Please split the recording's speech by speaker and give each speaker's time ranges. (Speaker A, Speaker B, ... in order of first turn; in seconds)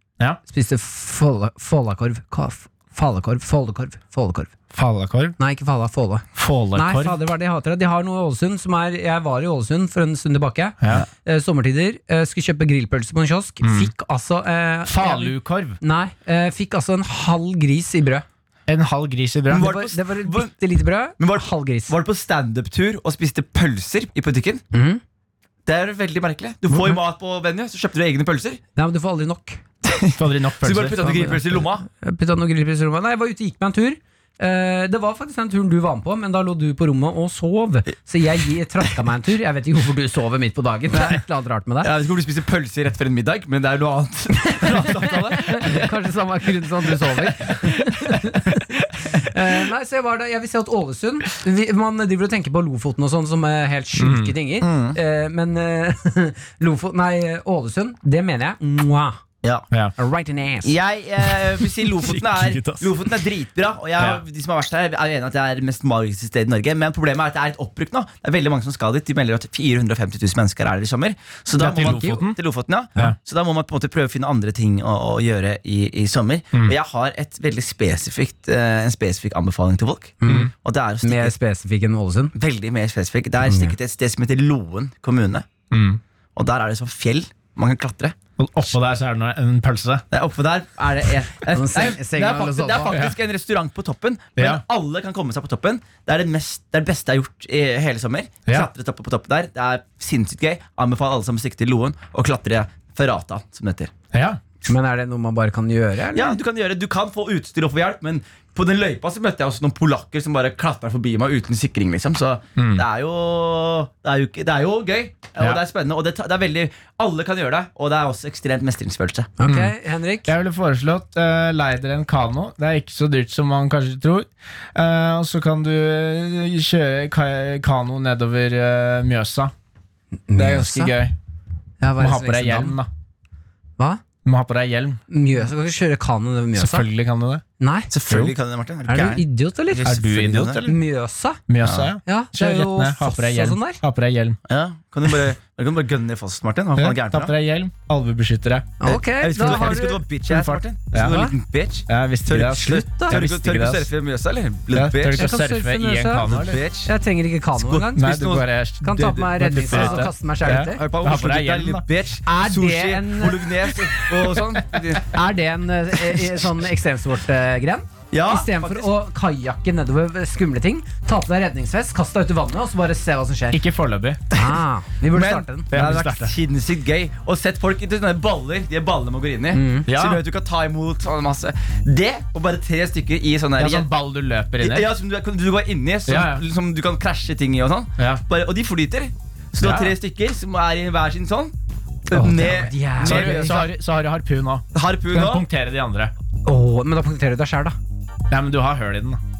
Speaker A: 0.5-4.5, 5.4-18.2, 19.5-21.9, 24.7-25.0, 28.8-29.6, 31.0-41.9, 44.8-59.2, 60.0-60.8, 71.7-72.2, 80.2-80.5, 81.0-82.3, 83.5-83.8, 91.5-93.0, 104.7-106.4, 119.4-120.3, 130.3-131.0, 131.8-132.8, 135.1-136.9, 137.6-137.9, 138.9-139.9, 140.6-141.4, 142.1-143.8, 148.8-150.0, 151.0-151.3, 152.8-153.1, 155.2-156.3, 156.8-158.2, 158.8-160.8, 162.2-163.5, 165.1-173.6, 174.3-175.7, 179.5-179.9, 192.1-193.6, 196.4-197.8
Speaker B: 4.7-5.4, 6.4-7.2, 10.8-11.1, 13.6-13.9, 14.9-15.8, 18.7-19.7, 26.7-27.0, 30.2-31.1, 44.7-45.4, 54.0-55.0, 61.4-63.0, 64.0-64.2, 71.6-72.4, 80.3-80.5, 85.7-86.0, 88.4-90.0, 94.4-94.6, 104.1-104.4, 112.6-112.8, 119.5-119.7, 120.2-129.5, 130.3-131.2, 132.0-132.9, 134.2-135.0, 136.6-137.4, 138.1-138.3, 139.8-140.8, 141.5-144.4, 146.8-148.8, 149.4-151.3, 151.9-153.9, 154.7-156.6, 157.9-161.8, 173.5-174.3, 175.2-176.3, 179.9-180.2, 183.6-184.9, 186.1-186.4, 188.0-188.2, 189.6-190.0, 193.0-196.1, 198.3-199.2
Speaker C: 19.5-20.5, 21.2-24.6, 25.7-28.6, 29.9-31.9, 41.8-45.8, 60.6-81.3, 82.3-85.5, 86.4-88.2, 90.1-103.9, 106.1-119.3, 137.9-140.7, 141.6-141.9, 144.5-147.3, 148.8-155.3, 156.3-156.9, 157.6-165.1, 168.1-168.9, 175.2-183.9, 184.6-191.6, 192.1-193.7, 194.7-195.4